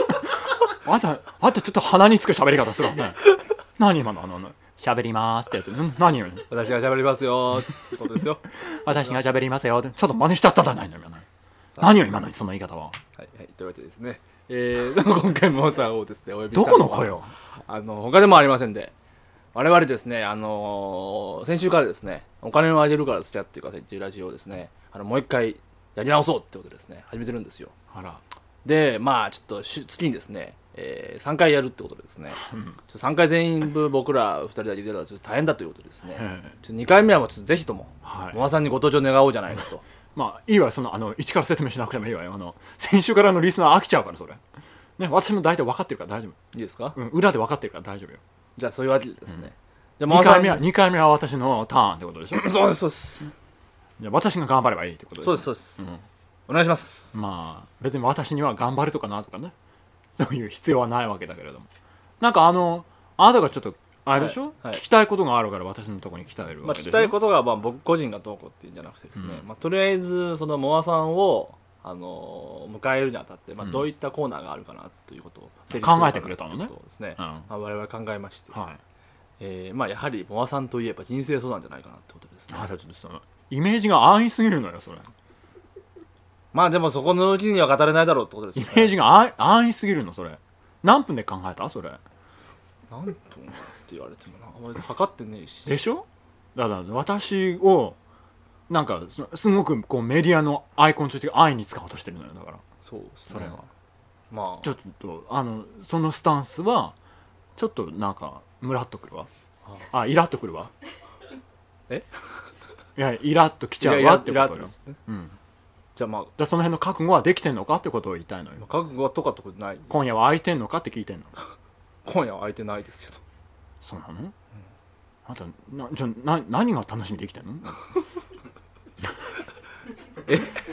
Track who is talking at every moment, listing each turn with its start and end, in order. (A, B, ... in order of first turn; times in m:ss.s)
0:00.8-0:06.5 A
0:06.5-0:08.4 B
0:08.6-0:11.2 A
0:11.7-0:12.2 B
0:11.8-0:13.0 A
0:13.2-0:18.9 B
0:16.5-0:17.3 A
0:19.5-0:27.7 B
0:27.9-0:28.2 A
0:28.6-0:39.8 B
0:32.4-0:32.8 A
0:36.1-0:36.5 A
0:38.0-0:38.4 A
0:40.1-0:44.4 A
0:45.0-0:46.4 A
0:46.5-0:47.0 B
0:47.0-0:48.2 A
0:48.6-0:50.6 B
0:50.1-0:52.5 A
0:52.3-0:53.3 B
0:54.0-0:56.0 A
0:55.2-0:55.9 B
0:56.5-0:57.1 B
0:57.1-0:59.5 A
1:00.1-1:01.7 A
1:02.2-1:07.2 A
1:04.1-1:04.8 B
1:06.6-1:18.6 B
1:09.2-1:09.4 A
1:15.7-1:17.5 A
1:18.5-1:18.8 A
1:19.4-1:22.7 B
1:22.5-1:25.1 A
1:26.5-1:29.0 B
1:28.6-1:32.0 A
1:32.9-1:35.8 B
1:35.6-1:38.0 A
1:38.7-1:42.6 A
1:42.8-1:43.6 B
1:43.3-1:43.6 A
1:44.3-1:44.7 B
1:44.6-1:46.9 A
1:47.6-1:49.3 A
1:49.9-1:50.7 A
1:53.0-1:55.3 A
1:53.8-1:55.0 B
1:55.9-1:56.3 B
1:56.4-1:58.6 A
1:58.6-2:00.0 B
1:59.9-2:01.3 A
2:02.0-2:03.2 B
2:03.8-2:04.3 A
2:05.2-2:07.8 A
2:10.3-2:10.6 B